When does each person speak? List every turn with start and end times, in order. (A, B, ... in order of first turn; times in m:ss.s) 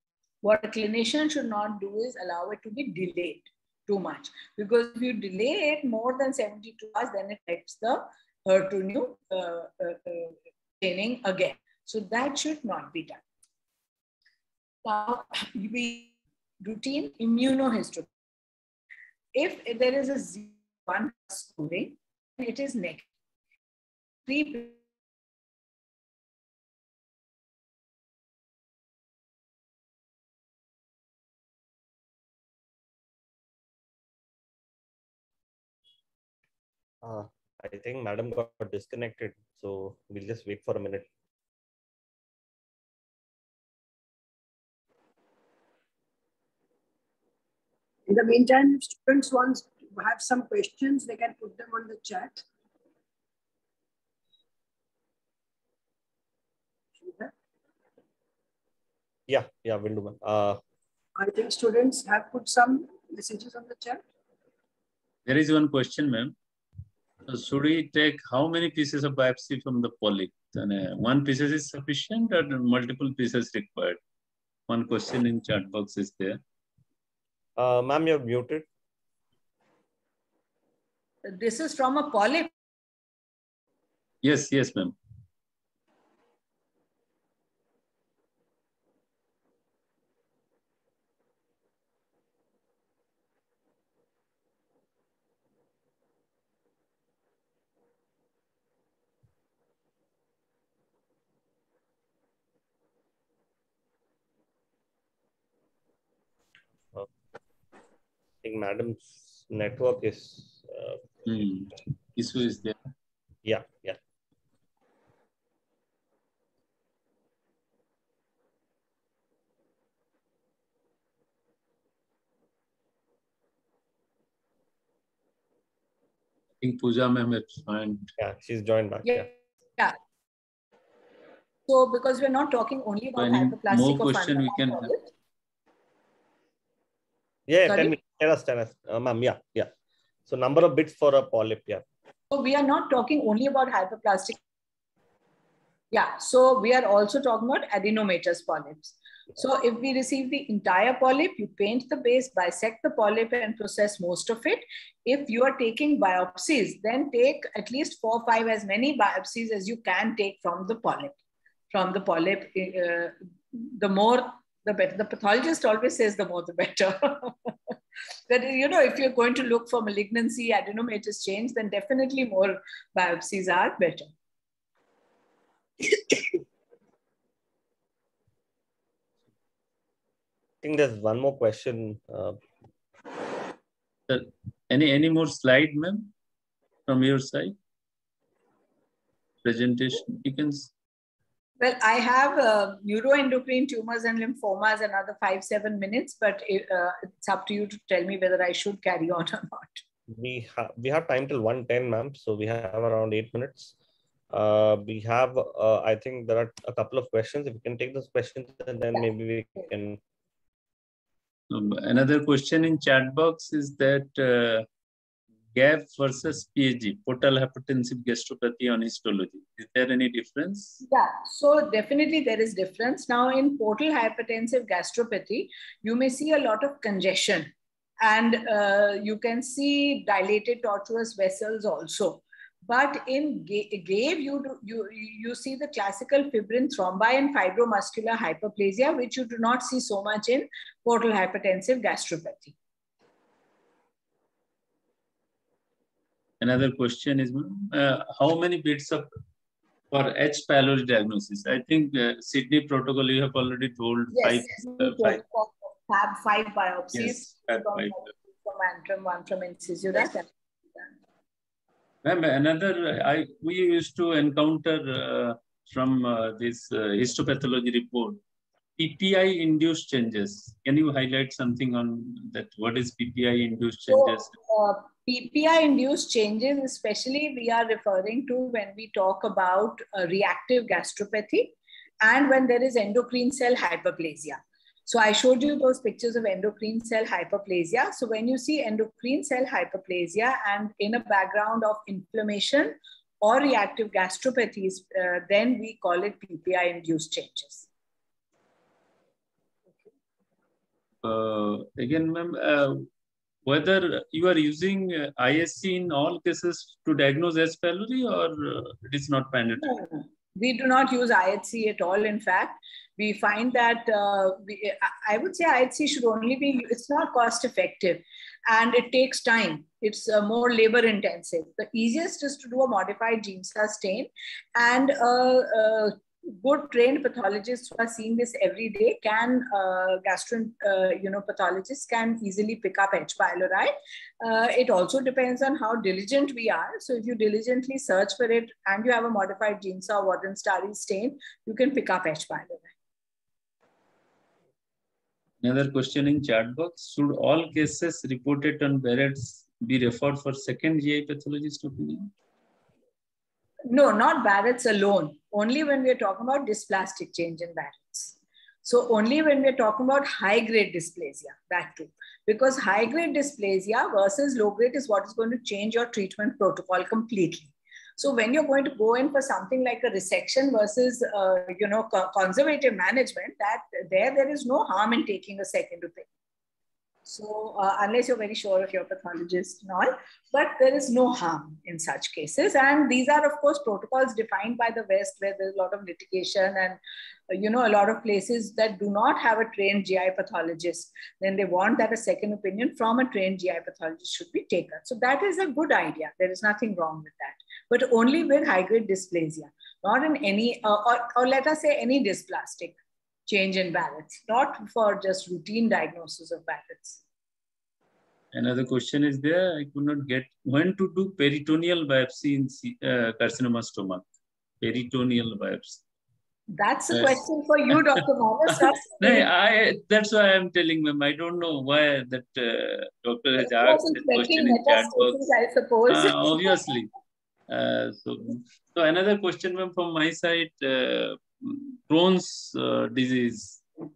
0:00.4-0:13.2 A
0:14.8-0:18.1 A
0:19.3-0:23.1 A
0:24.3-0:24.8 A
0:37.0-0:41.1 B
0:48.1-0:52.4 C
0:57.0-0:57.3 C
0:59.3-1:00.6 B
1:01.2-1:04.0 C
1:05.2-1:06.3 D
1:07.2-1:14.0 D
1:14.7-1:16.4 D
1:17.6-1:18.6 B
1:21.3-1:22.5 A
1:24.2-1:24.9 D
1:48.4-1:51.1 B
1:51.2-1:52.8 D
1:53.4-1:54.0 B
2:06.6-2:08.1 D
2:08.2-2:09.2 B
2:09.0-2:10.0 A
2:11.7-2:15.1 A
2:13.2-2:14.9 D
2:17.5-2:19.7 B
2:17.7-2:18.0 A
2:20.3-2:21.8 B
2:22.3-2:24.4 A
2:25.9-2:41.2 A
2:41.7-2:47.7 A
2:48.3-2:54.1 A
3:00.6-3:02.4 B
3:04.1-3:06.1 D
3:06.9-3:07.5 D
3:09.4-3:10.7 D
3:11.6-3:19.8 A
3:20.1-3:23.7 B
3:24.3-3:30.0 B
3:31.5-3:34.6 D
3:35.5-3:40.8 D
3:40.8-3:47.5 A
3:48.0-4:02.5 A
4:06.4-4:09.1 D
4:09.9-4:15.2 D
4:14.1-4:20.9 A
4:16.9-4:18.0 D
4:22.0-4:28.2 D
4:28.8-4:34.3 D
4:33.9-4:57.7 A
5:01.0-5:02.9 D
5:03.4-5:09.8 D
5:09.6-5:42.7 A
5:45.4-5:52.1 D
5:53.7-6:16.1 A
6:17.0-6:42.8 A
6:43.3-6:47.0 A
6:48.3-6:54.0 D
6:54.6-6:55.8 D
6:56.5-6:59.3 A
6:56.9-6:57.2 D
6:59.0-7:05.2 D
7:03.4-7:06.6 A
7:05.9-7:06.9 D
7:07.5-7:13.6 D